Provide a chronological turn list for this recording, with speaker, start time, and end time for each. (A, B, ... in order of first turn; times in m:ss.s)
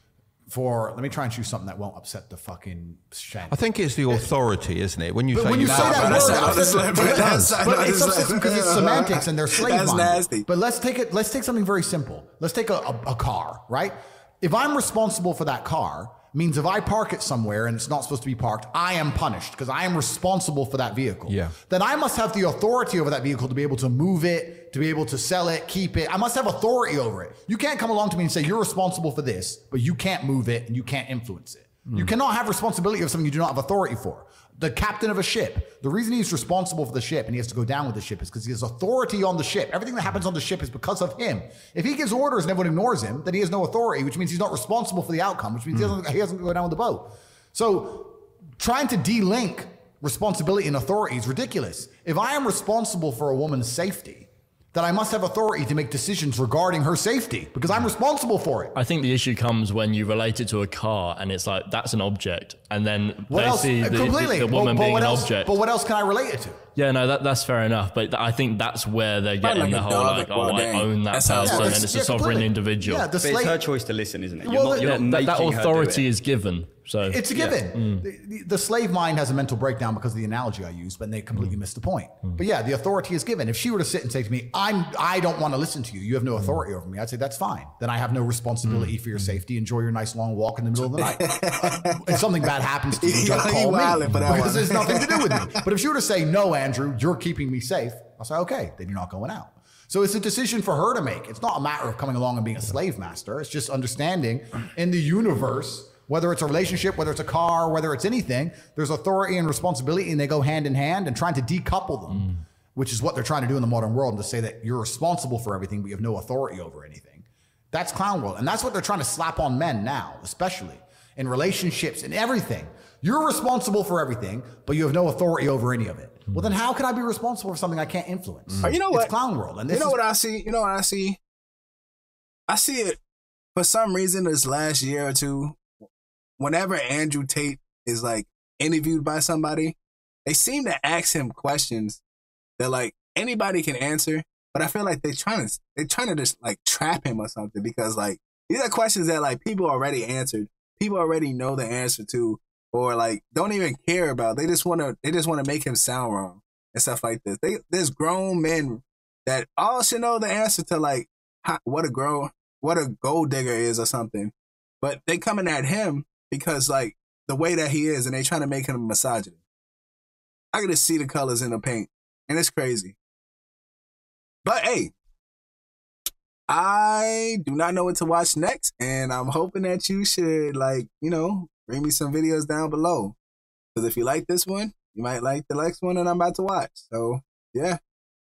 0:00.5-0:04.3 A
0:03.5-0:07.7 B
0:05.3-0:58.8 A
0:05.6-0:10.4 C
0:21.3-0:21.5 B
0:58.7-1:05.6 D
1:03.3-1:06.6 A
1:06.8-1:13.1 D
1:09.4-1:11.8 C
1:11.4-1:13.6 A
1:13.2-1:16.1 E
1:14.4-1:15.0 A
1:14.7-1:18.0 D
1:17.0-2:10.0 A
1:17.3-1:17.6 E
1:31.0-1:32.2 C
1:33.0-1:35.5 C
2:08.6-2:09.1 C
2:09.7-2:11.2 C
2:12.5-2:13.0 C
2:13.5-2:15.8 C
2:16.4-2:22.0 C
2:22.6-2:49.4 C
2:50.5-2:53.0 C
2:54.4-2:54.9 C
2:56.5-3:03.2 C
3:03.7-3:07.8 C